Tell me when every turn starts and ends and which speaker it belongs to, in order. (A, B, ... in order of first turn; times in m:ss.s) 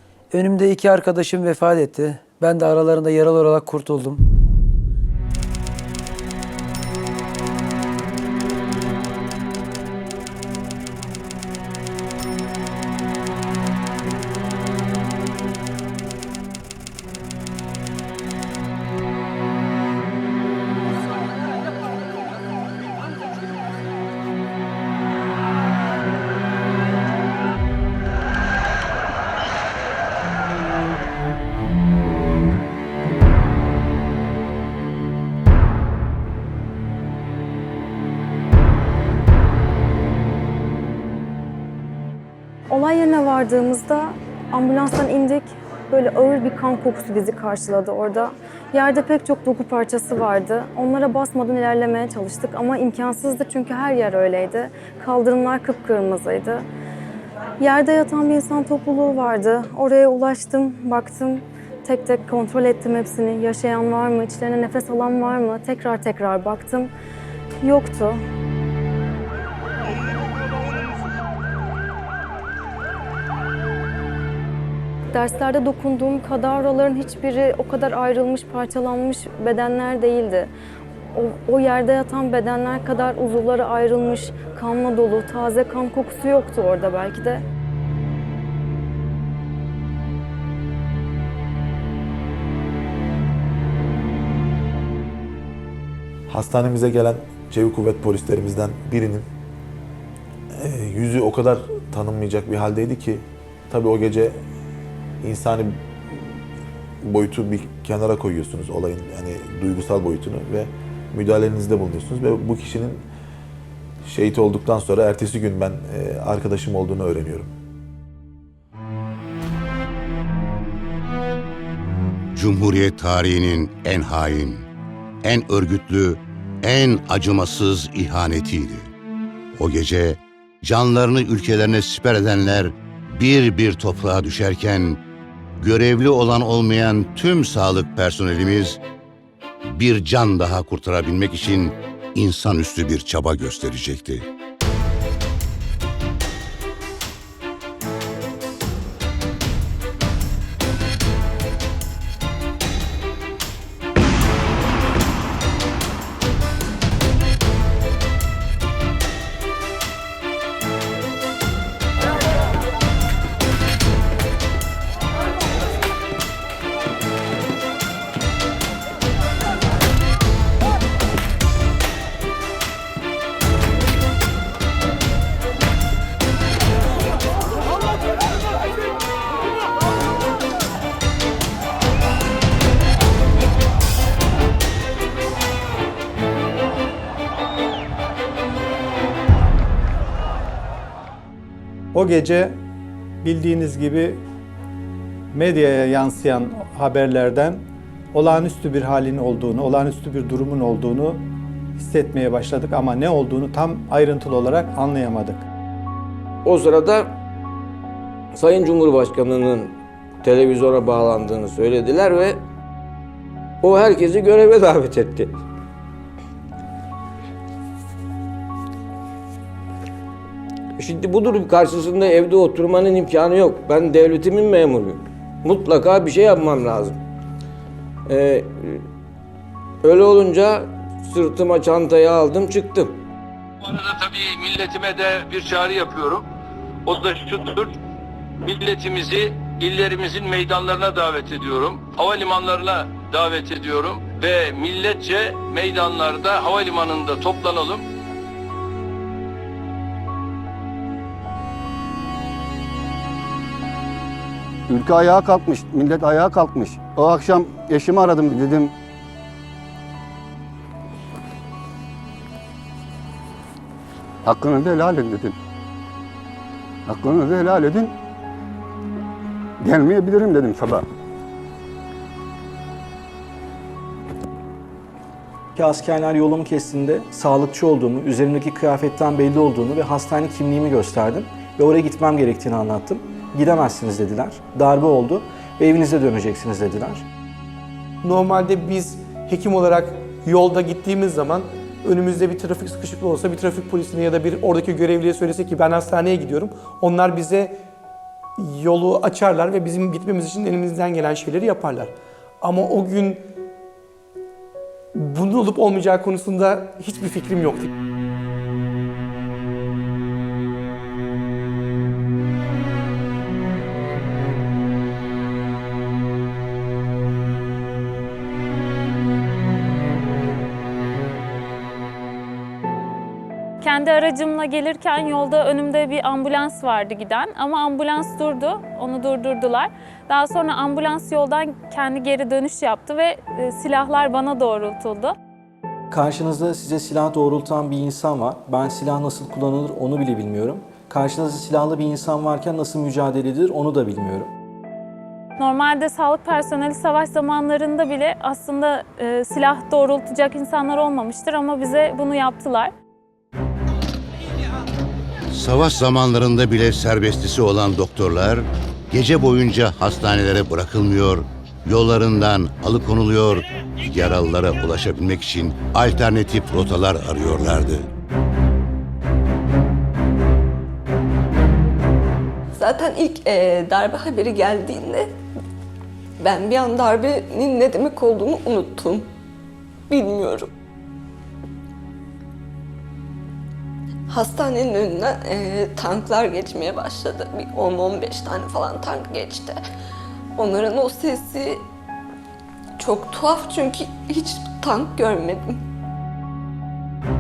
0:00.3-0:04.2 A
0:42.7-0:56.6 B
0:57.6-1:06.9 B
1:07.6-1:08.2 B
1:15.1-1:20.5 B
1:21.1-1:27.4 B
1:36.3-1:39.3 C
1:40.5-1:44.4 C
1:45.2-1:46.4 C
1:47.0-1:53.1 C
1:54.0-1:57.5 C
2:02.4-2:04.6 D
2:05.2-2:08.9 D
2:09.6-2:15.0 D
2:15.6-2:18.8 D
2:19.6-2:24.2 D
3:11.9-3:12.6 E
3:13.2-3:14.2 E
3:15.3-3:17.6 E
3:18.1-3:21.2 E
3:21.8-3:25.4 E
3:26.4-3:27.2 F
3:28.3-3:32.4 F
3:33.6-3:35.4 F
3:40.8-3:47.0 F
3:48.1-3:48.8 F
3:49.8-3:53.0 F
3:53.6-3:56.2 G
3:56.9-3:57.8 G
3:58.4-4:07.8 G
4:14.7-4:18.7 H
4:24.2-4:25.4 H
4:26.9-4:27.9 H
4:29.6-4:30.8 H
4:35.6-4:47.0 I
4:48.0-4:57.6 J
4:58.4-5:03.2 J
5:05.0-5:07.7 J
5:23.6-5:35.2 K
5:35.9-5:44.3 I
5:45.4-5:52.7 K
5:55.3-6:07.9 D
6:12.5-6:15.1 L
6:16.2-6:19.1 L
6:19.9-6:20.5 L
6:24.1-6:29.6 L
6:30.4-6:31.6 L
6:32.8-6:35.6 L